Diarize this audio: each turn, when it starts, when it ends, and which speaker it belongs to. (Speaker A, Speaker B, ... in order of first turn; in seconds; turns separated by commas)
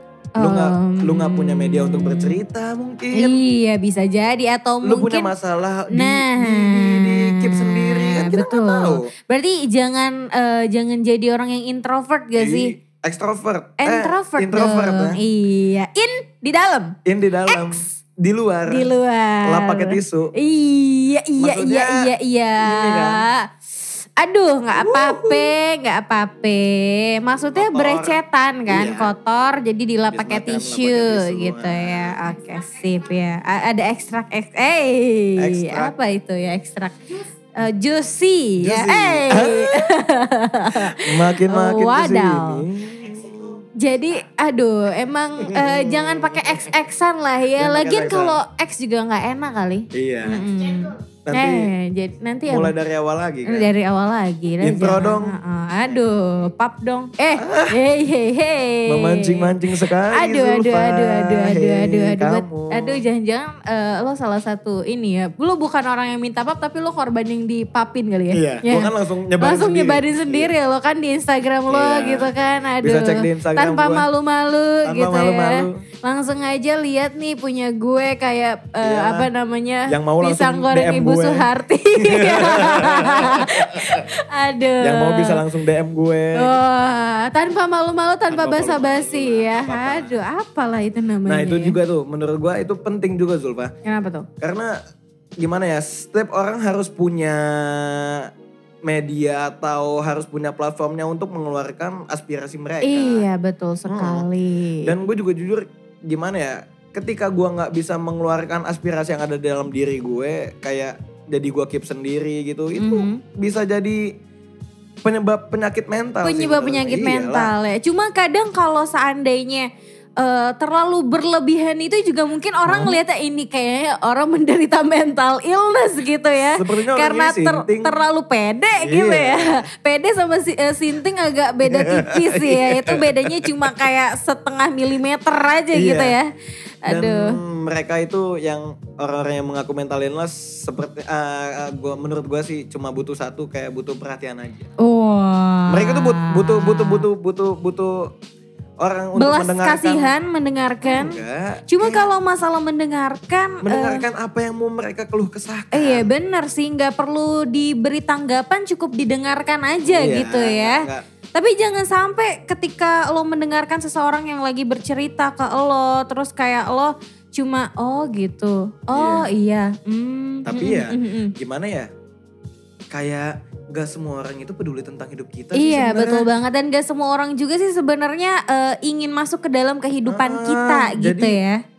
Speaker A: 0.4-2.4, Speaker B: 0.4-3.4, Speaker A: 3.1-5.3, Speaker B: 4.8-9.1, Speaker A: 5.9-12.7, Speaker B: 12.4-15.2, Speaker A: 13.8-16.9, Speaker B: 17.1-18.9, Speaker A: 17.5-17.9, Speaker A: 18.7-42.6, Speaker B: 19.4-20.3, Speaker B: 21.4-23.2, Speaker B: 24.7-25.5, Speaker B: 27.5-29.1, Speaker B: 30.1-32.2, Speaker B: 35.4-35.9, Speaker B: 38.6-39.9, Speaker B: 40.7-43.6, Speaker A: 43.8-52.7, Speaker B: 45.4-46.8, Speaker B: 47.6-48.4, Speaker B: 49.9-50.5, Speaker B: 51.2-51.7, Speaker B: 52.5-53.7, Speaker A: 53.5-85.4, Speaker B: 54.6-56.0, Speaker B: 57.3-57.8, Speaker B: 58.9-63.0, Speaker B: 68.3-70.5, Speaker B: 71.7-74.0, Speaker B: 74.8-75.8, Speaker B: 78.8-79.3, Speaker B: 79.9-81.5, Speaker B: 82.0-84.0, Speaker B: 84.8-86.6, Speaker A: 86.3-91.8, Speaker B: 88.3-90.2, Speaker B: 91.2-93.7, Speaker A: 93.8-94.3, Speaker B: 94.4-94.8, Speaker B: 95.4-98.3, Speaker B: 98.8-103.2, Speaker A: 102.8-104.9, Speaker B: 103.9-104.3, Speaker B: 104.8-114.1, Speaker A: 112.8-113.2, Speaker B: 115.0-117.5, Speaker A: 116.2-119.7, Speaker A: 120.2-136.3, Speaker B: 122.7-123.0, Speaker B: 126.5-127.9, Speaker B: 128.8-129.7, Speaker B: 131.7-133.7, Speaker B: 135.7-136.2, Speaker A: 136.8-137.4, Speaker B: 136.9-144.7, Speaker A: 144.8-147.1, Speaker B: 145.7-148.1, Speaker B: 148.8-150.1, Speaker A: 149.2-154.0, Speaker B: 150.8-152.1, Speaker B: 153.6-156.1, Speaker A: 155.7-171.3, Speaker B: 159.8-161.1, Speaker B: 168.9-169.3, Speaker B: 170.4-171.9, Speaker B: 172.9-176.3, Speaker A: 175.5-181.6, Speaker B: 180.1-181.4